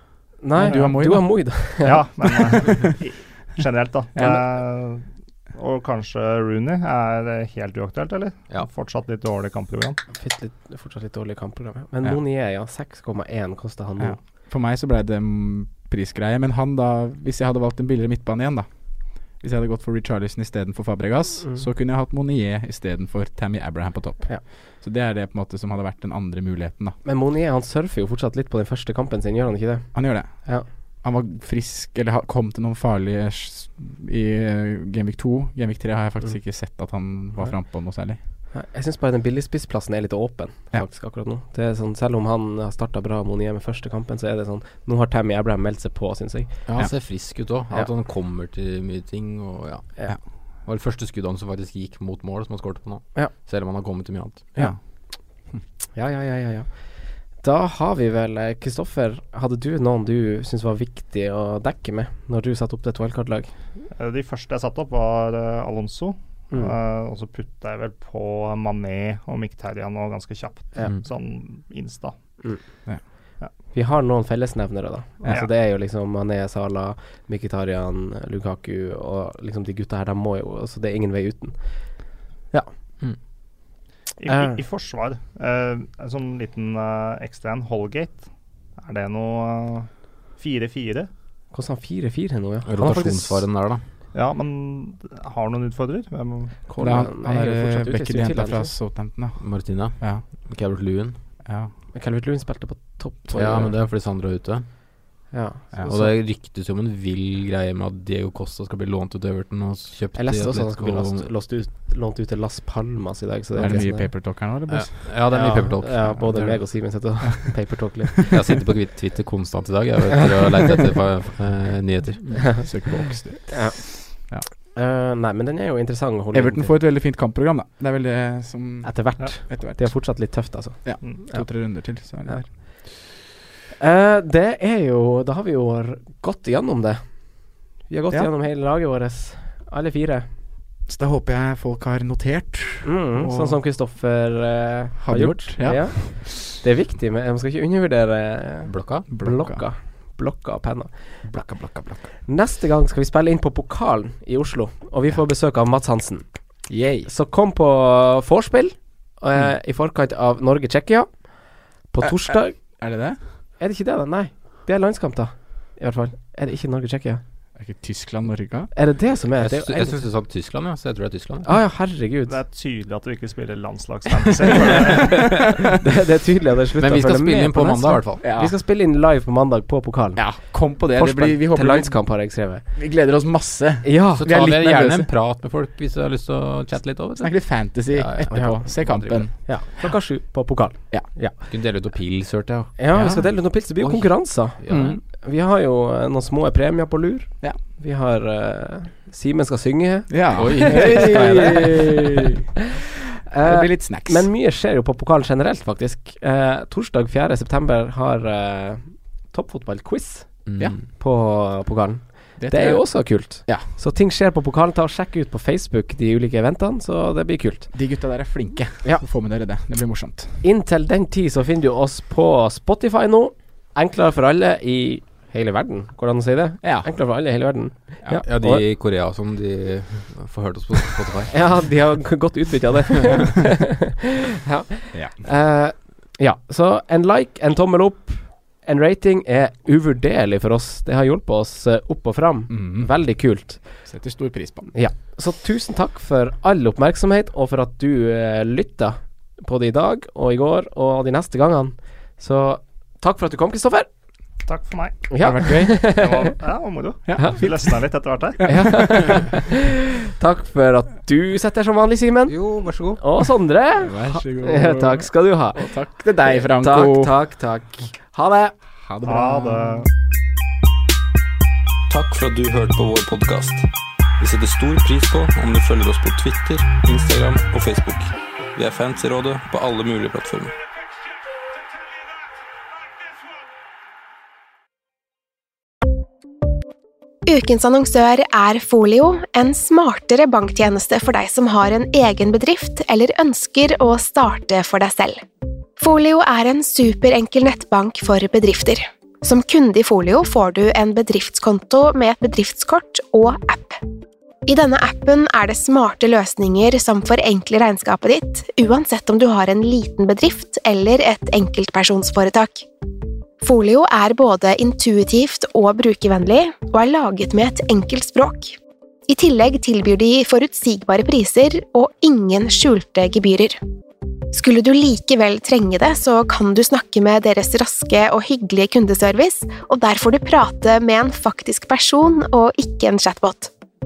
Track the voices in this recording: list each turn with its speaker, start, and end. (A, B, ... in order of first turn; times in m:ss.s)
0:00.4-0:02.0 A
0:00.5-0:02.9 B
0:01.8-0:10.0 C
0:10.1-0:14.2 A
0:14.0-0:27.0 B
0:27.0-0:30.6 A
0:29.9-0:38.2 B
0:38.5-0:46.6 A
0:46.6-0:54.5 D
0:55.9-1:03.6 A
1:04.0-1:12.2 C
1:13.7-1:22.7 A
1:24.2-1:31.1 C
1:24.3-1:24.6 A
1:31.5-1:33.5 A
1:32.6-1:33.8 D
1:34.1-1:36.5 C
1:36.7-1:38.7 A
1:36.8-1:40.2 B
1:39.4-1:41.2 D
1:41.4-1:41.7 B
1:41.9-1:43.7 A
1:43.3-1:44.6 D
1:45.3-1:46.1 A
1:45.8-1:51.3 D
1:50.1-1:54.1 A
1:53.6-1:55.1 B
1:54.7-1:56.7 D
1:55.3-1:58.2 A
1:57.5-1:57.8 B
1:58.3-2:02.7 D
2:02.2-2:04.4 B
2:03.5-2:06.7 A
2:06.3-2:09.9 B
2:08.8-2:11.4 A
2:10.8-2:12.5 B
2:13.8-2:20.3 A
2:20.9-2:23.6 B
2:22.8-2:31.2 A
2:25.0-2:26.4 B
2:28.6-2:29.1 D
2:29.1-2:29.6 B
2:31.2-2:32.1 B
2:32.3-2:36.2 A
2:36.7-2:37.1 B
2:37.1-2:41.3 A
2:41.9-2:42.6 A
2:42.0-2:43.2 B
2:43.6-2:47.2 A
2:47.6-2:48.7 B
2:48.7-2:50.0 A
2:49.4-2:51.4 D
2:51.4-2:52.3 A
2:52.3-2:55.5 C
2:55.4-2:55.6 B
2:55.8-3:00.2 A
2:56.8-2:58.2 D
2:58.2-2:58.5 B
3:00.2-3:02.0 B
3:00.9-3:02.6 A
3:02.8-3:05.1 B
3:03.8-3:04.2 A
3:04.2-3:09.3 D
3:07.2-3:09.9 B
3:08.3-3:08.6 A
3:09.4-3:11.3 A
3:11.4-3:12.8 D
3:12.8-3:22.3 A
3:12.9-3:13.2 B
3:13.8-3:15.0 D
3:14.7-3:15.0 B
3:20.1-3:22.4 B
3:20.3-3:21.8 D
3:23.3-3:37.7 A
3:23.4-3:24.3 B
3:30.4-3:30.8 D
3:32.4-3:33.7 B
3:37.7-3:40.4 B
3:40.4-3:48.6 A
3:46.6-3:46.9 B
3:48.2-3:51.6 D
3:51.3-4:03.8 A
4:02.5-4:02.9 B
4:03.6-4:04.7 B
4:04.7-4:13.9 A
4:14.4-4:15.1 C
4:15.1-4:16.3 A
4:15.2-4:16.0 B
4:15.8-4:19.0 C
4:17.1-4:17.8 B
4:18.4-4:22.4 A
4:18.5-4:19.2 B
4:22.3-4:23.0 D
4:22.9-4:25.7 A
4:23.8-4:27.2 B
4:26.2-4:28.5 A
4:28.8-4:29.8 B
4:29.0-4:29.9 C
4:31.9-4:33.6 E
4:34.2-4:40.6 E
4:47.3-4:55.2 F
4:55.8-5:03.8 F
5:04.5-5:12.6 F
5:13.4-5:18.6 F
5:19.1-5:23.6 F
5:24.3-5:33.5 F